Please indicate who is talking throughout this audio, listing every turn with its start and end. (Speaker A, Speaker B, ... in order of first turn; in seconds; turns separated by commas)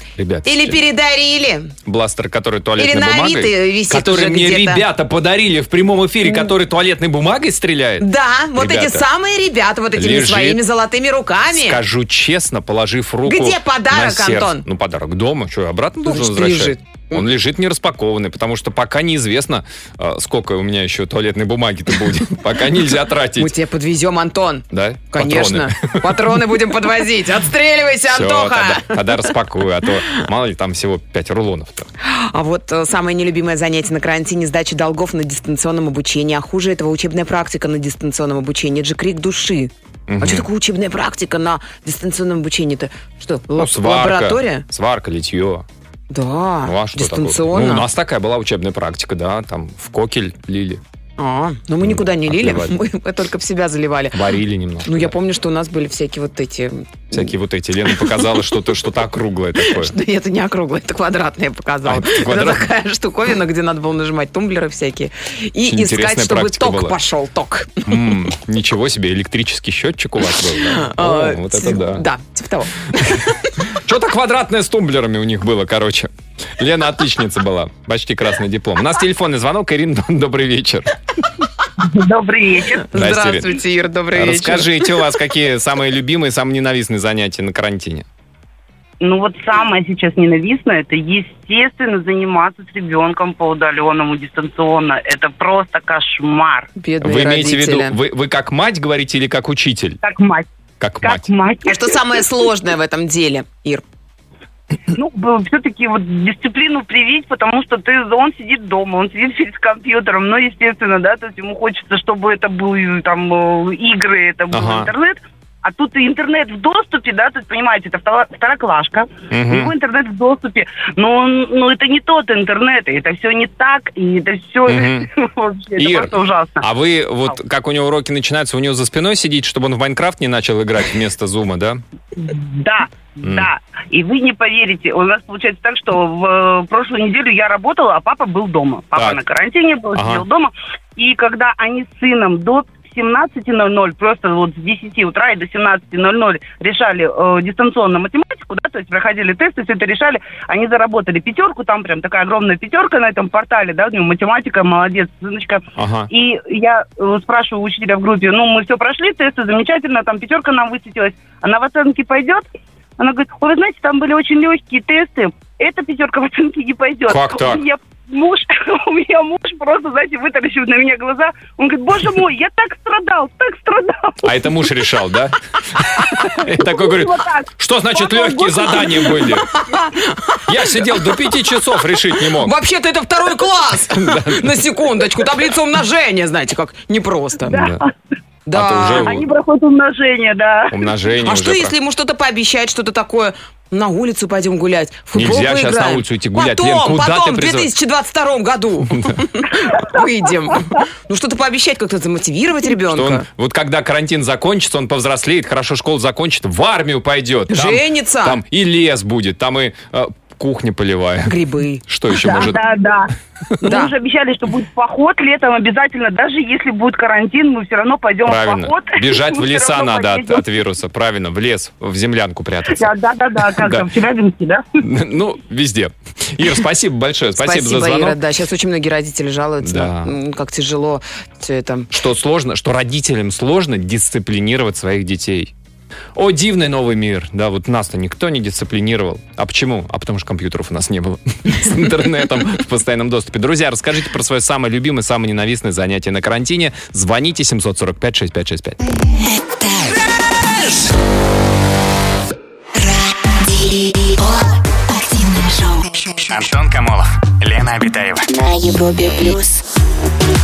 Speaker A: 0.2-0.8, Speaker B: 0.5-1.7, Speaker A: 1.9-9.1, Speaker B: 2.8-4.8, Speaker B: 8.0-11.8, Speaker A: 9.9-10.6, Speaker A: 11.5-23.5, Speaker B: 13.2-14.7, Speaker B: 16.1-17.2, Speaker B: 23.4-29.3, Speaker A: 24.7-26.4, Speaker A: 28.1-31.9, Speaker B: 32.0-44.6, Speaker A: 40.1-40.5, Speaker A: 43.6-45.7, Speaker B: 46.1-47.9, Speaker A: 46.6-50.8, Speaker B: 51.2-54.3, Speaker A: 51.8-52.8, Speaker A: 54.1-55.1, Speaker B: 54.8-57.3, Speaker A: 57.1-59.9, Speaker B: 57.9-58.4, Speaker B: 59.6-68.2, Speaker A: 61.9-62.7, Speaker A: 65.6-67.0, Speaker A: 67.9-72.0, Speaker B: 70.6-73.5, Speaker A: 73.7-81.0, Speaker C: 81.8-82.9, Speaker B: 82.8-85.0, Speaker A: 82.9-83.6, Speaker A: 84.1-88.1, Speaker C: 89.0-96.7, Speaker B: 96.8-98.0, Speaker A: 97.0-100.0, Speaker C: 100.0-100.5, Speaker A: 100.8-101.3, Speaker C: 101.0-102.2, Speaker B: 101.7-103.8, Speaker C: 104.9-126.7, Speaker A: 114.5-114.9, Speaker A: 119.3-119.7, Speaker A: 124.7-125.1, Speaker A: 125.8-131.8, Speaker C: 132.2-162.4, Speaker A: 133.2-133.5, Speaker A: 138.9-139.2, Speaker A: 139.9-140.2, Speaker A: 155.8-156.1, Speaker C: 163.0-174.5, Speaker A: 167.1-167.6, Speaker A: 174.2-179.5, Speaker C: 176.2-179.3, Speaker B: 179.2-181.3, Speaker A: 180.5-182.6, Speaker B: 182.1-187.6, Speaker A: 183.9-184.7, Speaker A: 187.5-187.8, Speaker C: 187.5-187.9, Speaker B: 188.5-189.2, Speaker A: 188.5-189.3, Speaker C: 189.0-190.9, Speaker A: 190.7-191.8, Speaker B: 191.2-203.2, Speaker A: 195.1-197.7, Speaker A: 198.9-199.2, Speaker C: 199.7-200.0, Speaker A: 202.8-212.6, Speaker B: 207.5-208.4, Speaker B: 211.3-212.4, Speaker C: 212.2-220.5, Speaker B: 213.6-213.9, Speaker A: 218.2-223.9, Speaker C: 222.7-224.7, Speaker A: 224.8-228.2, Speaker B: 227.4-231.9, Speaker A: 229.6-230.2, Speaker A: 231.9-235.5, Speaker A: 236.2-248.8, Speaker D: 249.2-250.0, Speaker D: 252.8-256.4, Speaker E: 256.2-258.2, Speaker D: 258.3-259.6